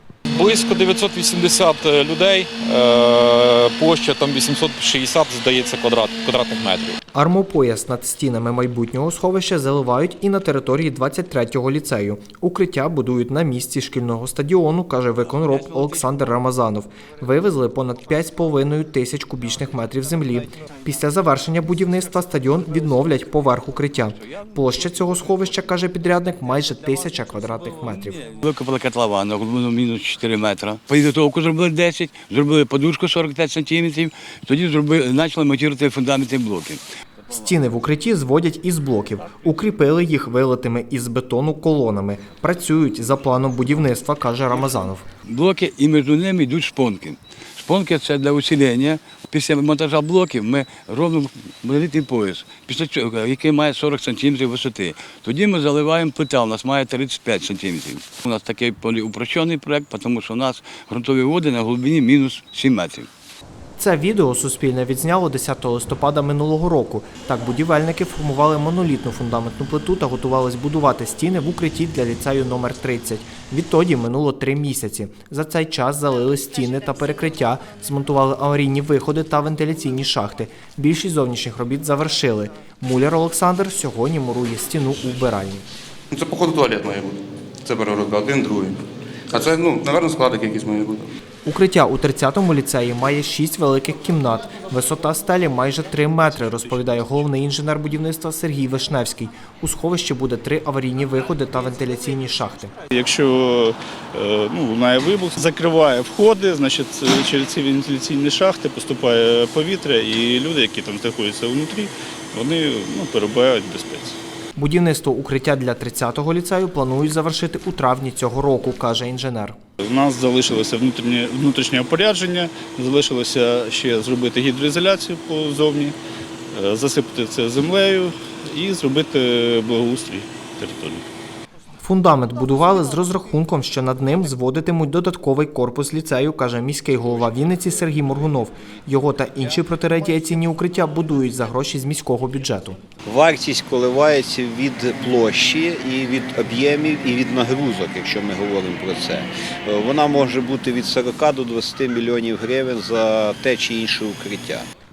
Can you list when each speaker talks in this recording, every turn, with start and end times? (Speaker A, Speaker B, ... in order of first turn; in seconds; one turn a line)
Speaker A: 0.3-7.0
Speaker B: 7.1-28.2
Speaker C: 28.2-36.8
Speaker B: 37.3-45.0
Speaker C: 45.2-63.1
Speaker B: 63.8-85.7
Speaker D: 86.1-91.1
Speaker B: 91.5-102.7
Speaker E: 102.9-114.2
Speaker B: 114.6-119.6
Speaker E: 119.8-126.0
Speaker E: 126.5-131.1
Speaker B: 131.8-142.8
Speaker F: 143.1-154.7